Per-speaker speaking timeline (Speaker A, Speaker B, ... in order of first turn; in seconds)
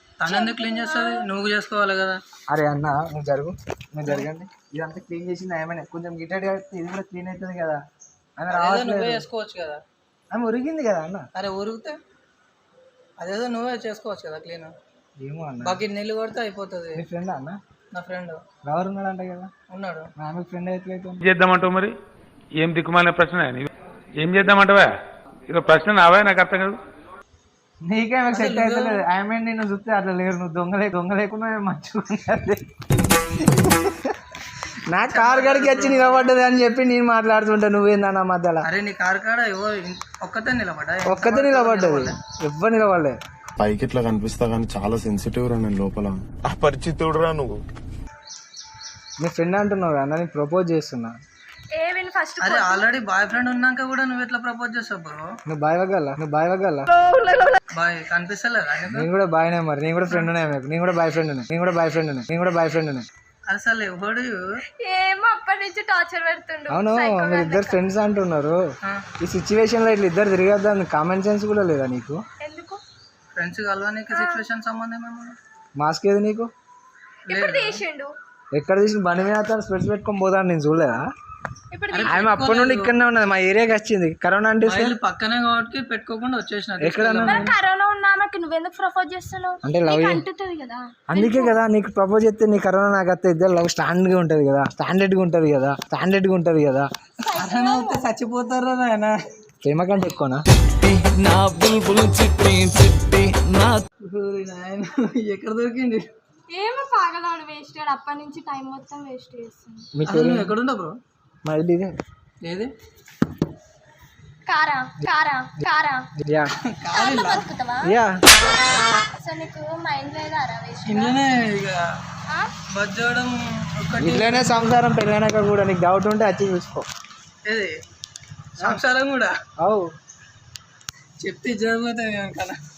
Speaker A: 0.2-2.2, 8.5-9.8, 11.4-12.0, 13.2-14.7, 15.6-17.0, 17.9-18.4, 19.7-20.1, 28.3-29.1, 35.0-36.3, 38.6-42.2, 52.4-55.2, 57.7-59.1, 63.5-64.4, 73.4-75.4, 77.3-77.8, 81.9-83.0, 84.7-87.6, 97.4-99.1, 104.0-106.1, 110.1-111.0, 112.4-112.7, 116.8-117.5, 120.8-121.8, 122.7-124.8, 127.5-127.7, 128.6-129.3, 131.2-132.6
Speaker B: 0.3-1.2, 51.7-52.9, 57.0-57.6, 64.8-67.8, 72.4-72.8, 74.1-74.5, 77.3-78.1, 81.7-82.2, 87.2-91.6, 97.2-98.0, 106.5-109.9, 114.5-116.1, 116.9-118.0, 118.9-121.2
Speaker C: 2.5-7.8, 8.4-9.2, 10.3-11.3, 15.2-15.8, 16.9-17.6, 18.6-19.5, 20.2-21.2, 27.8-32.6, 33.4-34.2, 34.9-38.7, 41.0-43.2, 49.2-51.1, 55.5-56.9, 58.9-63.1, 66.7-68.6, 69.2-72.2, 75.8-76.5, 78.5-81.1, 82.0-85.0, 86.8-87.5, 89.7-90.2, 91.1-96.9, 99.6-100.4, 109.9-110.5, 111.5-111.9, 116.2-116.5, 117.9-118.2, 124.0-126.9, 129.6-129.9
Speaker D: 21.2-21.9, 22.6-24.9, 25.5-26.8
Speaker E: 43.6-47.6
Speaker F: 100.8-103.8